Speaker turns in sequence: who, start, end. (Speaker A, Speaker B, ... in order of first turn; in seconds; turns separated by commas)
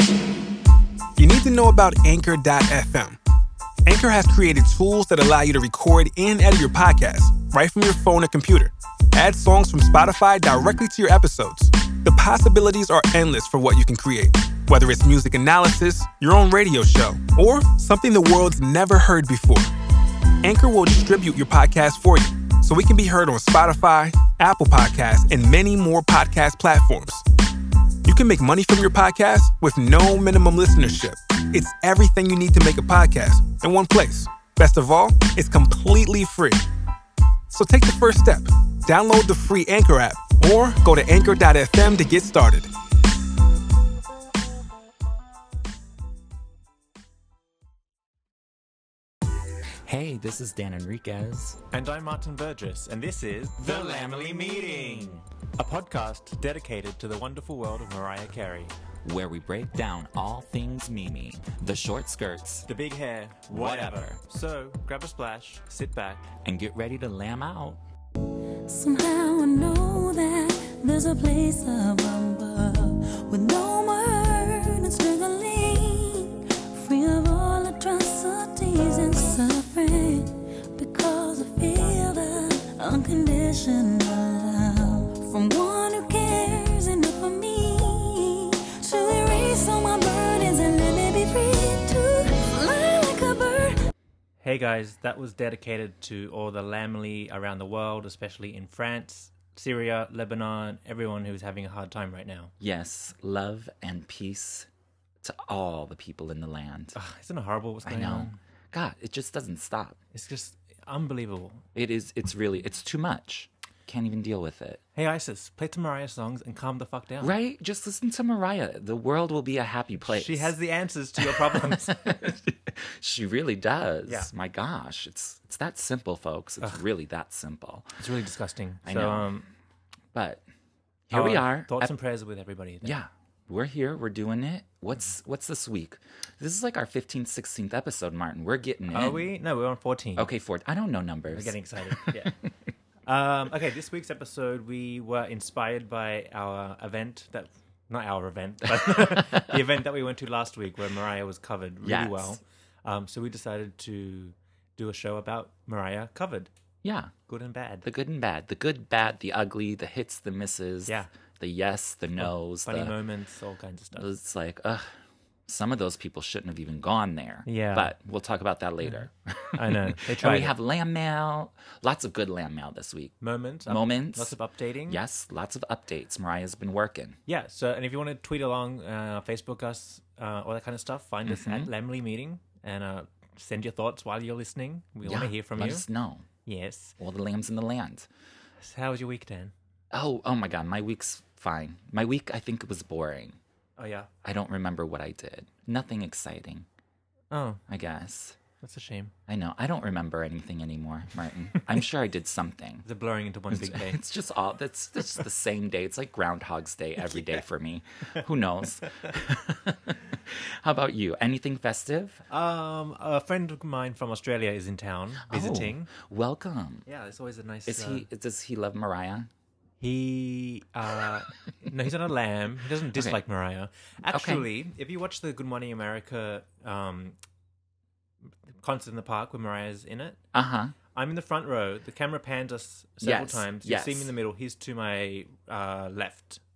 Speaker A: 1.2-3.2, Speaker A: 3.8-19.7, Speaker A: 20.4-27.2, Speaker A: 28.0-36.6, Speaker A: 37.5-42.7, Speaker B: 49.8-51.6, Speaker C: 51.7-58.7, Speaker B: 53.6-55.2, Speaker B: 59.0-62.6, Speaker C: 62.7-66.3, Speaker B: 63.5-64.2, Speaker B: 66.4-67.8, Speaker D: 68.7-93.8, Speaker C: 94.4-102.5, Speaker B: 102.6-104.7, Speaker B: 105.2-107.0, Speaker C: 106.9-108.4, Speaker B: 107.8-110.0, Speaker C: 110.1-111.6, Speaker B: 111.7-114.8, Speaker C: 114.9-117.3, Speaker B: 117.2-120.5, Speaker C: 120.0-122.0, Speaker B: 121.2-127.9, Speaker C: 128.0-129.5, Speaker B: 128.8-129.3, Speaker B: 130.1-130.4, Speaker B: 131.1-131.9, Speaker C: 131.1-133.0, Speaker B: 132.8-139.3, Speaker C: 138.9-140.3, Speaker B: 140.2-142.5, Speaker C: 141.3-142.3, Speaker C: 143.1-156.5, Speaker B: 148.8-149.6, Speaker B: 151.8-152.4, Speaker B: 156.8-157.1, Speaker C: 157.3-157.8, Speaker B: 157.8-163.0, Speaker C: 162.2-164.1, Speaker B: 163.9-164.9, Speaker B: 165.5-174.3, Speaker C: 167.4-167.9, Speaker C: 168.8-170.5, Speaker C: 173.2-175.0, Speaker B: 174.8-177.2, Speaker C: 177.2-185.8, Speaker B: 181.2-181.7, Speaker B: 185.0-186.2, Speaker C: 186.4-186.9, Speaker B: 187.0-188.1, Speaker C: 188.6-189.5, Speaker B: 189.9-193.4, Speaker C: 193.8-194.1, Speaker B: 194.2-196.7, Speaker C: 197.3-197.6, Speaker B: 197.7-198.4, Speaker C: 198.6-199.1, Speaker B: 199.3-202.8, Speaker C: 202.8-204.0, Speaker B: 203.5-212.2, Speaker C: 207.0-207.4, Speaker C: 212.3-215.9, Speaker B: 215.3-216.8, Speaker C: 216.8-218.1, Speaker B: 217.7-219.3, Speaker C: 219.8-227.2, Speaker B: 222.9-223.2, Speaker B: 224.1-224.5, Speaker C: 228.6-230.2, Speaker B: 230.3-230.7, Speaker C: 230.9-236.4, Speaker B: 233.0-234.1